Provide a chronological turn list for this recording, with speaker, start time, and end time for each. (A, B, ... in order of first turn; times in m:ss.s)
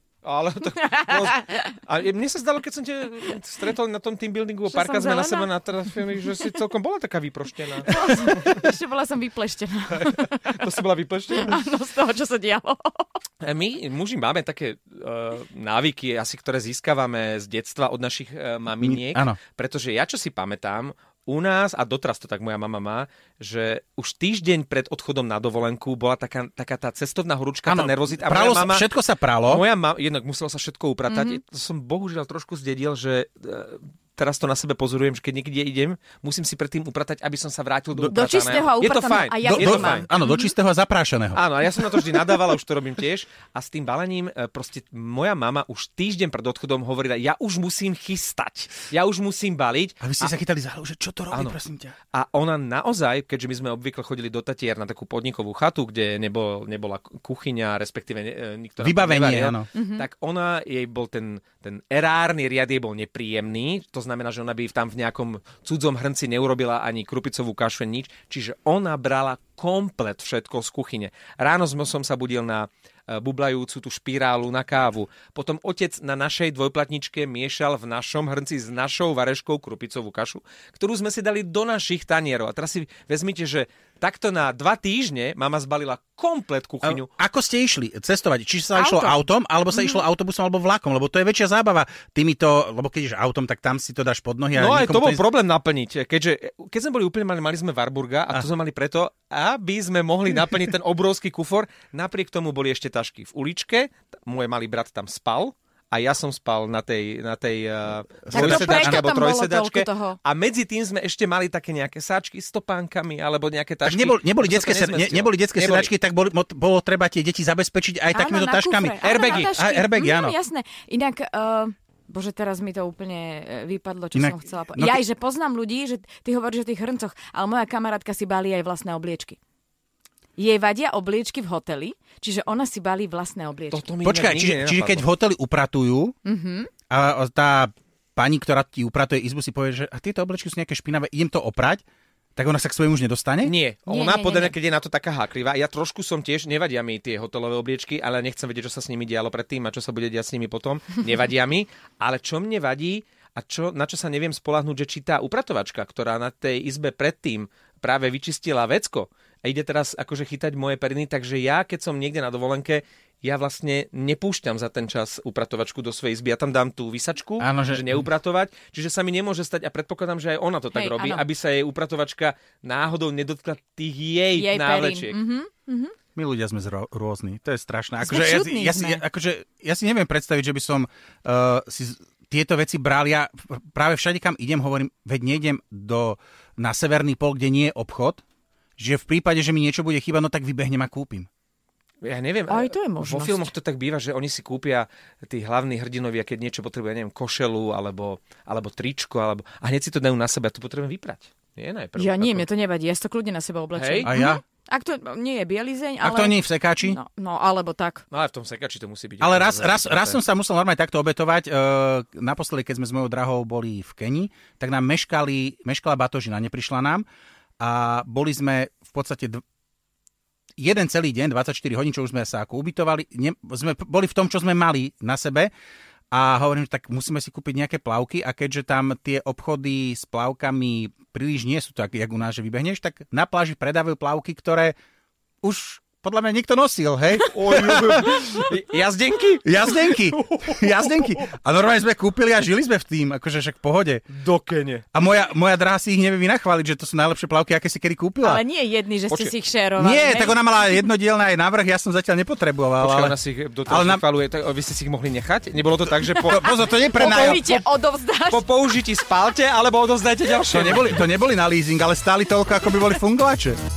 0:00.2-0:07.9 A
0:00.8-0:01.6 B
0:04.7-0:05.5 B
0:07.9-0:10.5 B
0:10.0-0:11.6 A
0:11.3-0:13.2 B
0:13.4-0:28.9 A
0:18.8-0:19.4 C
0:27.7-0:29.6 C
0:29.5-0:40.1 A
0:31.1-0:31.4 B
0:38.0-0:40.5 B
0:39.4-0:42.3 C
0:41.3-0:50.4 A
0:50.0-0:52.0 C
0:51.3-0:51.6 A
0:52.1-1:27.1 A
0:58.8-0:59.7 C
0:59.7-1:00.0 B
1:26.8-1:35.2 C
1:28.7-1:29.2 B
1:29.7-1:30.0 B
1:34.5-1:55.9 A
1:48.2-1:49.1 C
1:48.3-1:50.2 B
1:53.8-2:00.3 C
1:58.1-2:09.4 B
1:59.0-1:59.5 A
2:04.1-2:05.0 C
2:10.4-2:13.8 B
2:13.7-2:15.1 A
2:14.0-2:16.2 C
2:16.2-2:16.7 B
2:16.9-2:21.8 C
2:22.4-2:23.5 C
2:23.4-2:55.2 A
2:23.9-2:24.5 B
2:47.4-2:48.0 C
2:50.7-2:51.2 B
2:54.3-2:55.9 B
2:56.1-3:08.2 C
2:58.0-2:59.0 B
3:08.8-3:11.3 C
3:12.0-3:22.4 A
3:12.5-3:13.5 B
3:21.9-3:28.0 B
3:23.7-3:24.1 A
3:24.0-3:24.4 C
3:26.0-3:27.0 C
3:28.1-3:30.2 A
3:29.2-3:37.0 C
3:37.6-3:39.4 C
3:40.6-3:45.5 C
3:46.1-3:54.7 C
3:55.4-3:58.3 C
3:57.3-4:01.2 A
3:59.4-4:04.0 C
4:04.1-4:04.8 A
4:04.9-4:08.4 C
4:08.2-4:10.4 B
4:09.1-4:09.3 A
4:09.8-4:13.1 C
4:12.8-4:17.6 A
4:13.7-4:14.0 C
4:16.2-4:18.4 B
4:16.2-4:17.4 C
4:18.3-4:21.0 A
4:20.5-4:23.6 C